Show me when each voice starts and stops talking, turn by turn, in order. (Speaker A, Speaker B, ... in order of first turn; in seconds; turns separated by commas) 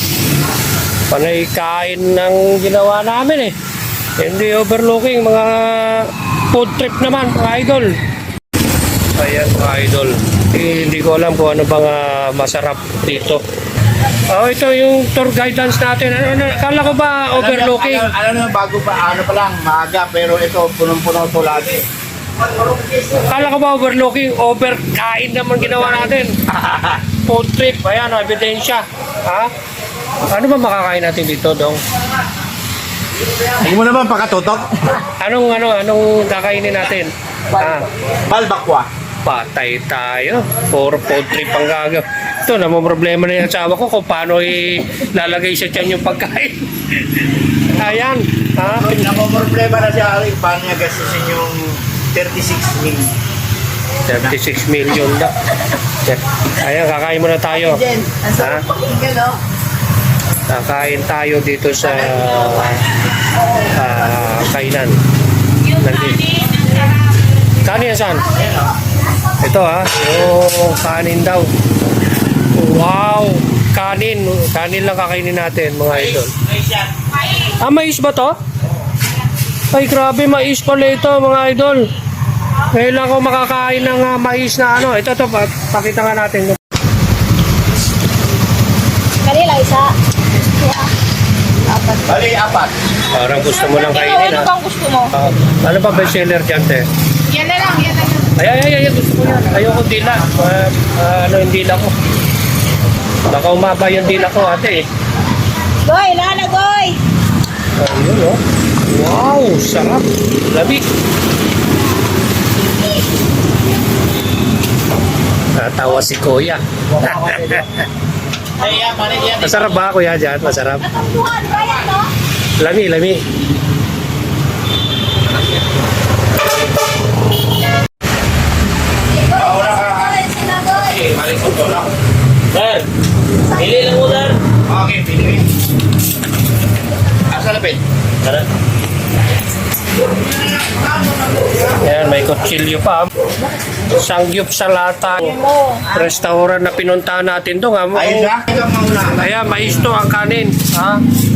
Speaker A: 1.1-3.5, Speaker A: 4.2-8.0, Speaker A: 9.2-13.4, Speaker A: 14.3-18.1, Speaker B: 17.3-21.8, Speaker A: 23.1-29.5, Speaker A: 30.3-31.8, Speaker B: 33.4-34.7, Speaker A: 35.2-37.9, Speaker B: 38.3-38.9, Speaker A: 39.2-46.6, Speaker A: 47.6-48.9, Speaker B: 48.6-53.1, Speaker A: 54.1-55.3, Speaker B: 54.1-54.4, Speaker A: 56.0-58.6, Speaker C: 57.9-59.3, Speaker A: 60.5-62.8, Speaker A: 63.6-65.0, Speaker A: 65.7-66.3, Speaker A: 67.6-68.3, Speaker A: 69.4-71.5, Speaker A: 72.5-76.3, Speaker A: 77.3-78.3, Speaker A: 79.7-81.8, Speaker A: 82.7-86.6, Speaker C: 89.2-90.9, Speaker C: 91.7-92.0, Speaker B: 92.0-92.7, Speaker A: 93.1-94.5, Speaker C: 94.2-95.1, Speaker A: 95.1-96.8, Speaker C: 97.3-98.1, Speaker A: 98.3-101.9, Speaker A: 103.3-104.9, Speaker C: 105.8-107.0, Speaker A: 107.8-110.8, Speaker A: 115.5-117.7, Speaker B: 117.0-117.6, Speaker B: 118.6-119.5, Speaker A: 119.4-120.9, Speaker A: 122.6-123.2, Speaker B: 129.3-131.9, Speaker A: 132.5-132.8, Speaker A: 133.5-134.4, Speaker B: 134.7-135.5, Speaker B: 137.3-137.8, Speaker B: 140.7-141.6, Speaker A: 141.8-143.1, Speaker A: 143.9-148.3, Speaker B: 147.9-149.4, Speaker A: 149.1-151.0